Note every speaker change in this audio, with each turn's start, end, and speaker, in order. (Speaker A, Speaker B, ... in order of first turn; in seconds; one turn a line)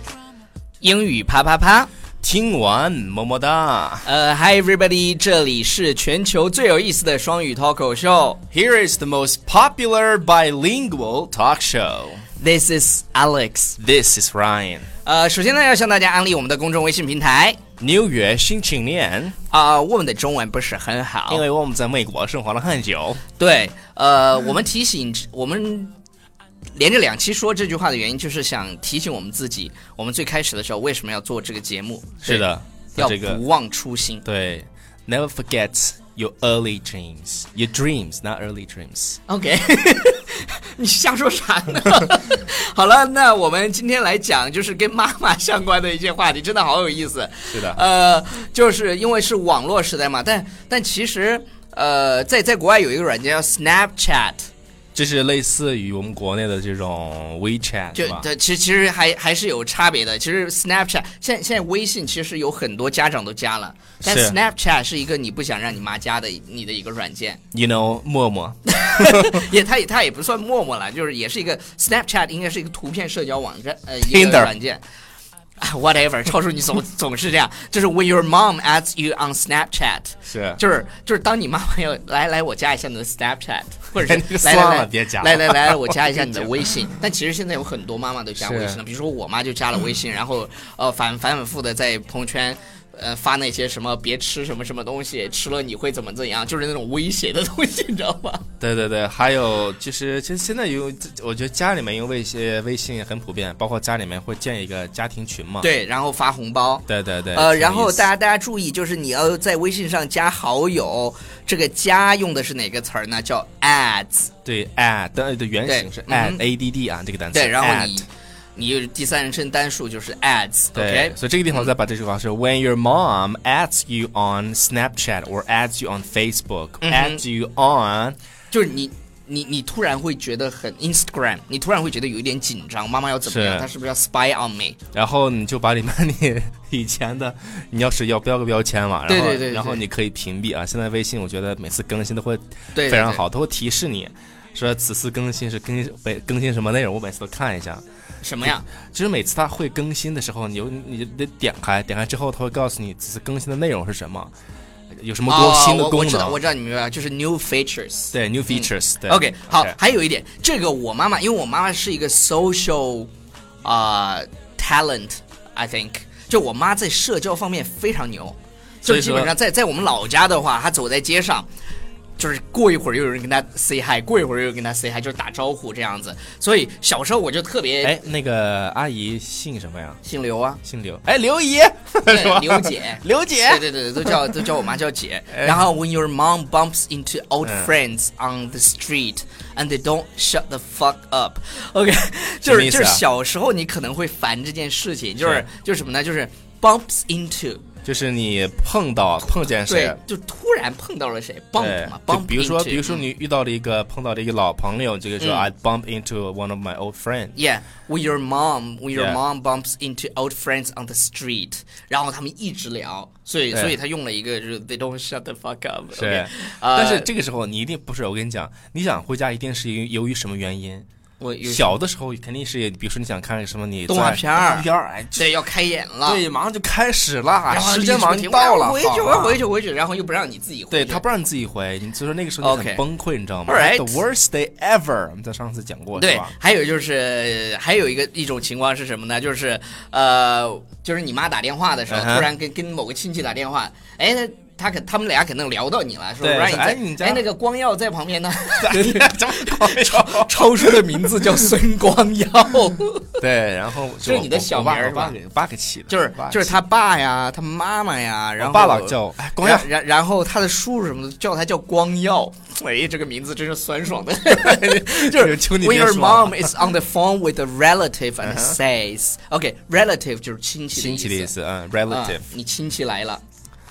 Speaker A: 0.8-1.9
Speaker B: 2.2-4.0
Speaker A: 4.0-8.4
Speaker B: 8.5-12.2
Speaker A: 12.4-13.8
Speaker B: 13.8-14.9
Speaker A: 15.0-17.6
Speaker B: 17.8-19.4
Speaker A: 19.5-21.4
Speaker B: 21.3-23.2
Speaker A: 23.4-25.9
Speaker A: 26.7-34.2
Speaker B: 32.2-33.4
Speaker B: 34.2-39.2
Speaker A: 39.3-54.5
Speaker B: 47.5-47.8
Speaker B: 54.9-58.2
Speaker A: 57.9-67.4
Speaker B: 64.0-64.4
Speaker B: 67.5-69.4
Speaker A: 68.7-74.8
Speaker B: 74.0-74.5
Speaker A: 75.6-98.4
Speaker B: 80.3-80.6
Speaker B: 83.9-86.7
Speaker B: 88.4-88.8
Speaker B: 98.6-105.7
Speaker A: 105.6-114.3
Speaker B: 106.9-108.1
Speaker B: 114.4-118.0
Speaker A: 115.7-116.4
Speaker A: 117.3-121.7
Speaker B: 120.7-128.2
Speaker A: 126.8-127.2
Speaker A: 128.5-134.8
Speaker B: 133.2-133.7
Speaker B: 134.9-147.8
Speaker A: 139.1-139.8
Speaker A: 142.7-143.2
Speaker A: 148.2-148.7
Speaker B: 148.4-154.3
Speaker B: 154.9-156.4
Speaker A: 155.3-163.1
Speaker B: 158.1-159.8
Speaker A: 163.6-171.5
Speaker B: 168.8-169.3
Speaker A: 172.2-178.0
Speaker B: 177.8-180.0
Speaker A: 180.0-180.6
Speaker B: 180.6-184.5
Speaker A: 182.1-197.6
Speaker B: 185.3-185.6
Speaker B: 187.4-187.7
Speaker B: 192.4-193.0
Speaker B: 197.8-200.0
Speaker A: 199.6-203.0
Speaker B: 201.6-207.3
Speaker A: 205.2-205.5
Speaker A: 207.3-217.1
Speaker B: 208.9-209.2
Speaker B: 215.9-220.9
Speaker A: 221.2-221.8
Speaker B: 221.4-225.3
Speaker A: 223.9-226.2
Speaker B: 226.0-229.4
Speaker A: 227.5-231.0
Speaker B: 230.7-236.3
Speaker A: 232.4-232.8
Speaker A: 233.5-234.0
Speaker A: 235.9-253.2
Speaker B: 241.9-242.3
Speaker B: 246.2-247.2
Speaker B: 248.6-251.4
Speaker B: 253.2-256.6
Speaker A: 254.0-255.2
Speaker A: 255.9-271.3
Speaker B: 258.4-259.7
Speaker B: 264.3-266.6
Speaker B: 268.2-268.6
Speaker B: 270.7-272.2
Speaker A: 271.9-273.2